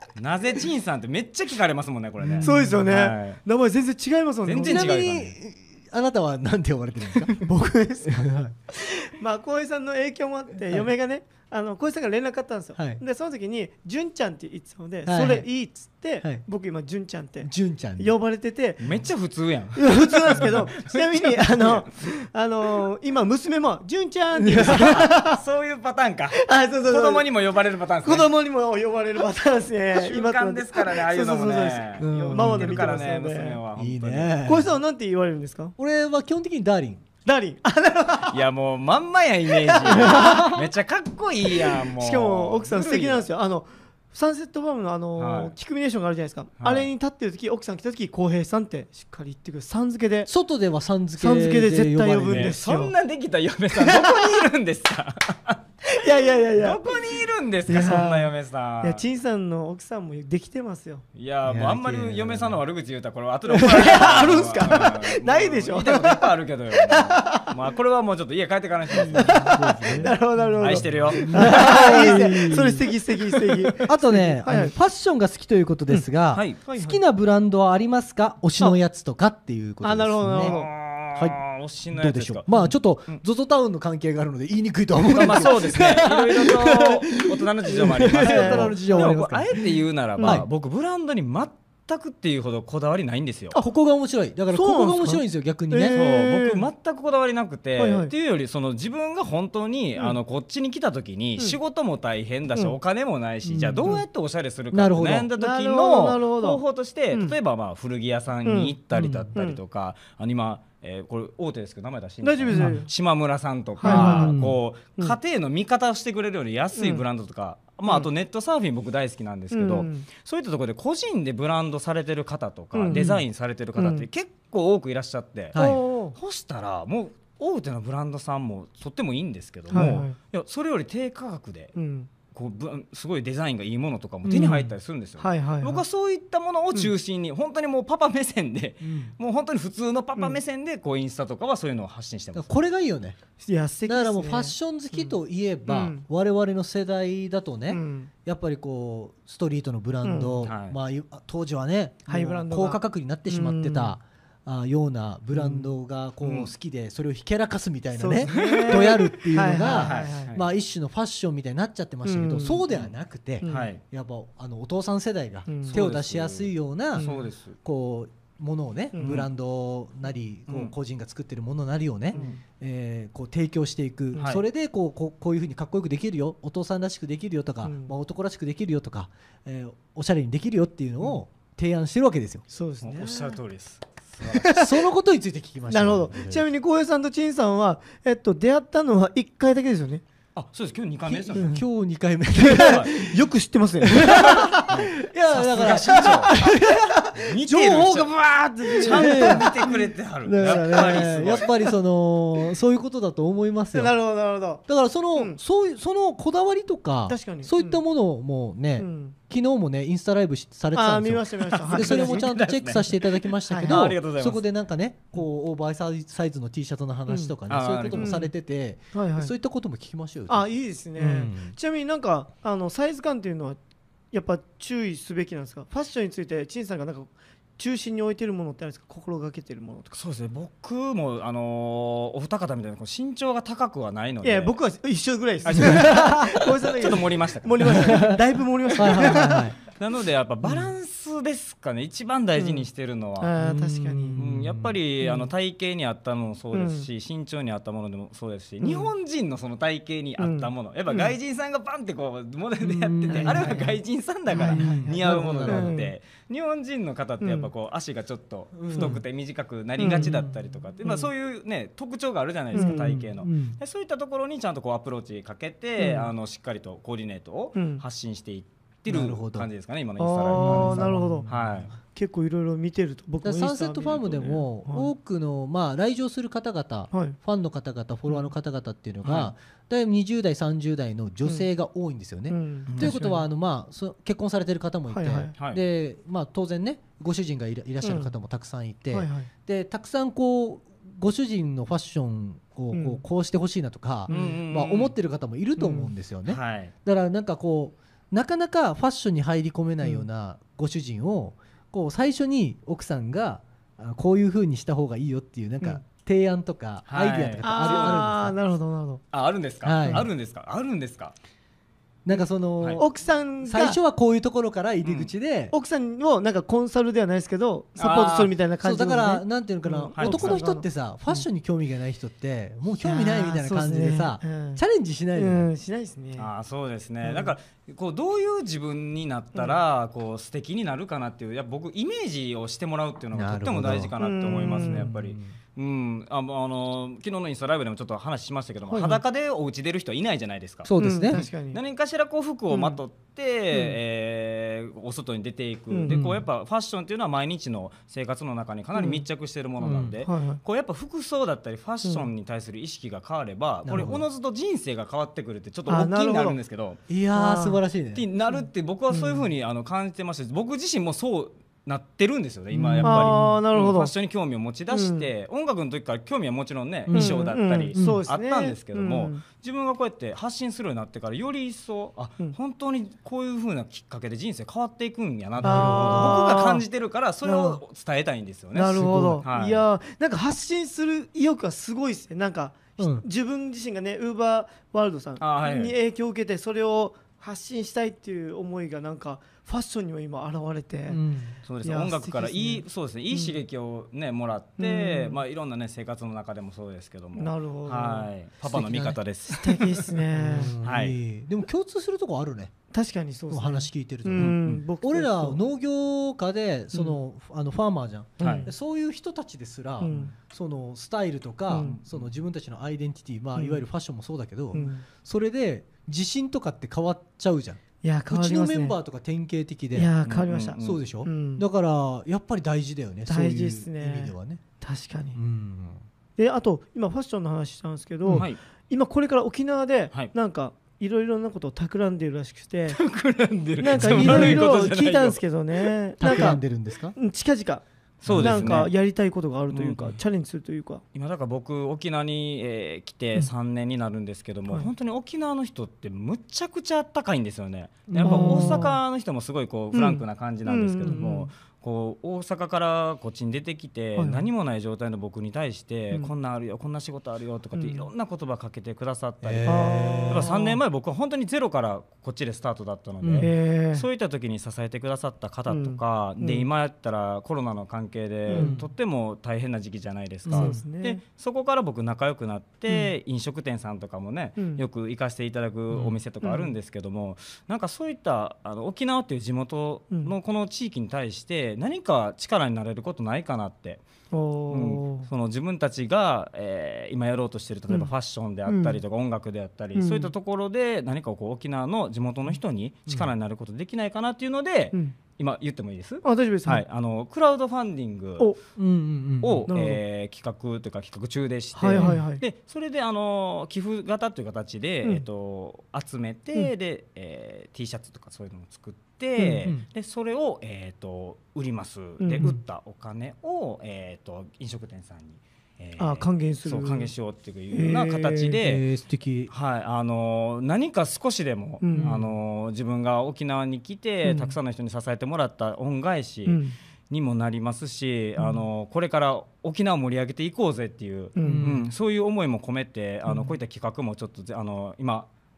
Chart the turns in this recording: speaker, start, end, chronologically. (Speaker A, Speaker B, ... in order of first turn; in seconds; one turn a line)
Speaker A: 0.1-3.4
Speaker B: 2.2-2.8
Speaker C: 2.4-5.0
Speaker A: 4.5-5.3
Speaker B: 4.6-7.5
Speaker C: 7.4-18.8
Speaker B: 8.0-8.6
Speaker B: 12.8-13.0
Speaker B: 15.1-15.5
Speaker B: 17.4-18.1
Speaker A: 18.8-21.9
Speaker C: 19.8-25.4
Speaker B: 24.4-24.9
Speaker A: 24.6-28.3
Speaker C: 26.4-27.3
Speaker C: 28.0-33.6
Speaker A: 29.9-34.5
Speaker B: 32.0-32.8
Speaker B: 33.8-34.8
Speaker C: 34.5-35.8
Speaker B: 35.8-37.0
Speaker C: 37.2-38.4
Speaker A: 38.3-43.3
Speaker C: 39.5-40.6
Speaker C: 41.5-50.3
Speaker A: 45.2-45.5
Speaker A: 46.6-46.9
Speaker B: 50.3-52.6
Speaker C: 51.2-52.9
Speaker A: 52.3-55.6
Speaker C: 53.8-54.2
Speaker C: 55.9-57.0
Speaker A: 56.5-59.0
Speaker C: 57.7-61.0
Speaker A: 61.1-72.3
Speaker B: 61.5-62.6
Speaker C: 63.5-67.5
Speaker C: 69.0-74.7
Speaker B: 69.0-72.9
Speaker B: 73.8-80.6
Speaker A: 76.3-76.6
Speaker C: 76.6-77.0
Speaker C: 79.8-80.7
Speaker A: 80.3-83.2
Speaker B: 81.1-90.5
Speaker A: 85.1-93.6
Speaker C: 88.0-89.2
Speaker C: 90.2-90.4
Speaker B: 93.5-96.0
Speaker C: 94.5-96.7
Speaker A: 95.9-131.8
Speaker C: 97.8-98.1
Speaker B: 103.5-103.9
Speaker B: 104.7-105.3
Speaker C: 105.4-107.3
Speaker C: 108.4-108.8
Speaker B: 108.9-109.3
Speaker C: 112.2-112.9
Speaker B: 112.5-112.8
Speaker C: 113.8-114.3
Speaker B: 113.8-114.6
Speaker C: 116.8-117.0
Speaker C: 119.5-120.1
Speaker C: 122.7-123.2
Speaker B: 122.9-123.2
Speaker C: 123.8-124.1
Speaker B: 125.5-125.8
Speaker C: 125.5-126.2
Speaker C: 129.7-130.2
Speaker B: 129.7-130.0
Speaker C: 131.8-132.1
Speaker A: 132.3-142.5
Speaker B: 134.2-134.7
Speaker C: 134.3-134.6
Speaker C: 135.2-135.8
Speaker B: 138.8-139.1
Speaker B: 142.3-143.2
Speaker C: 143.4-146.1
Speaker B: 143.9-182.4
Speaker C: 147.7-148.1
Speaker C: 150.0-150.5
Speaker A: 150.4-150.8
Speaker C: 152.1-153.9
Speaker C: 155.3-155.7
Speaker A: 156.2-156.5
Speaker C: 157.9-160.3
Speaker A: 158.3-160.4
Speaker C: 162.0-162.7
Speaker C: 163.4-163.7
Speaker A: 163.4-163.8
Speaker C: 165.5-165.8
Speaker A: 165.7-167.6
Speaker C: 166.9-167.3
Speaker C: 168.9-169.3
Speaker A: 169.0-169.3
Speaker A: 170.5-170.7
Speaker C: 172.1-172.4
Speaker A: 172.1-172.4
Speaker C: 174.1-174.4
Speaker A: 174.2-174.4
Speaker C: 177.6-177.9
Speaker C: 182.5-183.4
Speaker A: 182.8-184.5
Speaker C: 184.3-184.8
Speaker B: 184.5-186.5
Speaker C: 185.7-190.0
Speaker A: 190.3-191.6
Speaker B: 191.1-193.2
Speaker C: 191.3-191.6
Speaker C: 192.3-194.6
Speaker A: 192.6-192.9
Speaker B: 193.8-198.1
Speaker A: 194.6-196.5
Speaker C: 195.7-197.9
Speaker A: 197.1-201.5
Speaker C: 198.7-199.8
Speaker B: 198.7-203.9
Speaker C: 200.4-201.7
Speaker C: 203.7-205.4
Speaker B: 204.7-221.6
Speaker C: 207.1-207.8
Speaker C: 208.8-209.2
Speaker C: 210.7-212.3
Speaker A: 211.6-214.4
Speaker C: 213.5-213.8
Speaker C: 217.1-217.3
Speaker A: 217.5-218.2
Speaker C: 217.9-218.3
Speaker C: 218.9-219.3
Speaker C: 220.3-223.6
Speaker C: 224.1-229.9
Speaker A: 229.9-234.6
Speaker C: 234.2-239.5
Speaker A: 235.4-238.1
Speaker B: 235.6-236.1
Speaker B: 237.8-238.2
Speaker A: 238.8-243.3
Speaker B: 238.8-239.6
Speaker C: 242.4-242.7
Speaker C: 243.2-244.2
Speaker B: 243.4-244.8
Speaker A: 244.2-271.7
Speaker C: 246.5-246.9
Speaker C: 248.6-248.9
Speaker C: 250.2-251.1
Speaker B: 252.6-253.6
Speaker C: 253.1-255.9
Speaker B: 254.4-255.8
Speaker C: 257.2-257.5
Speaker B: 258.5-259.0
Speaker C: 258.7-259.0
Speaker C: 259.8-260.2
Speaker B: 259.9-260.4
Speaker C: 260.8-261.1
Speaker C: 262.5-263.0
Speaker B: 262.5-263.6
Speaker C: 265.8-266.1
Speaker C: 267.6-267.8
Speaker B: 268.9-269.5
Speaker C: 270.0-271.3
Speaker B: 270.3-271.7
Speaker C: 271.9-274.9
Speaker B: 273.2-308.4
Speaker C: 276.9-277.2
Speaker A: 279.0-279.3
Speaker C: 282.3-283.2
Speaker A: 282.7-282.9
Speaker C: 284.9-285.3
Speaker C: 287.8-288.1
Speaker C: 288.9-289.3
Speaker C: 292.7-293.0
Speaker C: 294.1-294.4
Speaker A: 294.1-294.9
Speaker C: 295.6-295.9
Speaker A: 296.3-296.7
Speaker A: 306.9-308.1
Speaker C: 307.4-309.0
Speaker A: 309.1-311.1
Speaker B: 309.6-310.1
Speaker C: 309.8-310.1
Speaker B: 312.1-315.5
Speaker C: 312.8-313.8
Speaker A: 314.8-315.1
Speaker C: 315.5-321.2
Speaker A: 317.8-318.3
Speaker B: 318.6-325.5
Speaker A: 319.9-320.4
Speaker C: 322.8-324.6
Speaker C: 325.1-326.3
Speaker A: 326.2-356.8
Speaker C: 327.0-327.3
Speaker B: 333.1-333.9
Speaker C: 334.0-334.9
Speaker B: 334.5-335.4
Speaker C: 338.7-339.0
Speaker B: 340.6-341.2
Speaker C: 340.8-341.6
Speaker C: 342.5-342.8
Speaker C: 345.7-346.0
Speaker B: 345.9-346.2
Speaker C: 348.8-349.0
Speaker B: 349.6-350.0
Speaker C: 350.0-350.4
Speaker B: 353.6-354.0
Speaker C: 355.7-356.4
Speaker B: 356.9-358.1
Speaker C: 357.1-357.6
Speaker A: 357.9-379.6
Speaker C: 358.3-359.3
Speaker B: 362.5-363.4
Speaker C: 362.8-363.9
Speaker C: 364.7-365.1
Speaker B: 366.9-368.0
Speaker C: 366.9-369.2
Speaker B: 375.4-376.3
Speaker C: 375.4-376.6
Speaker C: 377.2-377.6
Speaker C: 378.5-391.0
Speaker B: 378.7-379.2
Speaker B: 382.8-383.1
Speaker A: 385.2-385.8
Speaker B: 390.9-391.4
Speaker A: 391.4-399.9
Speaker C: 391.6-393.4
Speaker C: 394.6-395.2
Speaker C: 397.1-398.1
Speaker B: 398.4-399.0
Speaker C: 399.3-400.6
Speaker B: 400.1-402.5
Speaker A: 400.6-401.0
Speaker C: 402.7-405.4
Speaker B: 403.3-419.9
Speaker A: 404.2-404.5
Speaker C: 406.7-407.0
Speaker C: 408.2-408.5
Speaker A: 408.2-408.5
Speaker C: 409.8-410.1
Speaker C: 411.5-411.8
Speaker A: 411.6-412.0
Speaker C: 413.4-413.6
Speaker C: 414.5-414.9
Speaker C: 417.8-418.8
Speaker C: 419.7-421.4
Speaker A: 420.1-420.8
Speaker B: 420.6-424.4
Speaker C: 423.1-425.2
Speaker B: 425.1-425.8
Speaker C: 426.2-432.8
Speaker A: 428.1-428.4
Speaker A: 432.7-436.3
Speaker C: 433.6-436.4
Speaker B: 433.8-434.4
Speaker B: 436.0-436.9
Speaker C: 436.9-437.6
Speaker A: 438.0-438.7
Speaker B: 438.1-438.7
Speaker C: 438.1-440.8
Speaker A: 439.5-440.0
Speaker A: 440.9-483.8
Speaker B: 447.9-448.6
Speaker C: 448.0-448.8
Speaker C: 449.7-451.3
Speaker C: 453.9-454.3
Speaker C: 457.5-457.9
Speaker B: 459.2-460.3
Speaker C: 459.4-460.6
Speaker B: 463.0-463.3
Speaker C: 463.2-463.9
Speaker C: 465.5-466.4
Speaker C: 468.3-468.5
Speaker B: 468.3-468.7
Speaker B: 470.3-470.6
Speaker C: 470.3-471.0
Speaker C: 474.4-474.6
Speaker B: 475.7-476.0
Speaker C: 476.2-476.5
Speaker C: 484.1-485.1
Speaker A: 484.5-498.3
Speaker C: 488.4-488.8
Speaker C: 489.8-490.1
Speaker C: 496.0-496.6
Speaker B: 498.6-499.5
Speaker A: 499.2-518.6
Speaker C: 499.5-499.8
Speaker C: 501.6-502.2
Speaker B: 501.7-502.0
Speaker C: 509.2-509.5
Speaker C: 512.0-512.3
Speaker C: 515.8-516.9
Speaker C: 517.5-518.4
Speaker B: 518.4-519.3
Speaker A: 519.3-535.1
Speaker C: 521.6-521.9
Speaker B: 521.8-522.1
Speaker C: 524.0-524.4
Speaker C: 526.3-526.6
Speaker C: 528.2-528.4
Speaker C: 531.1-531.5
Speaker B: 531.2-531.7
Speaker C: 533.1-533.3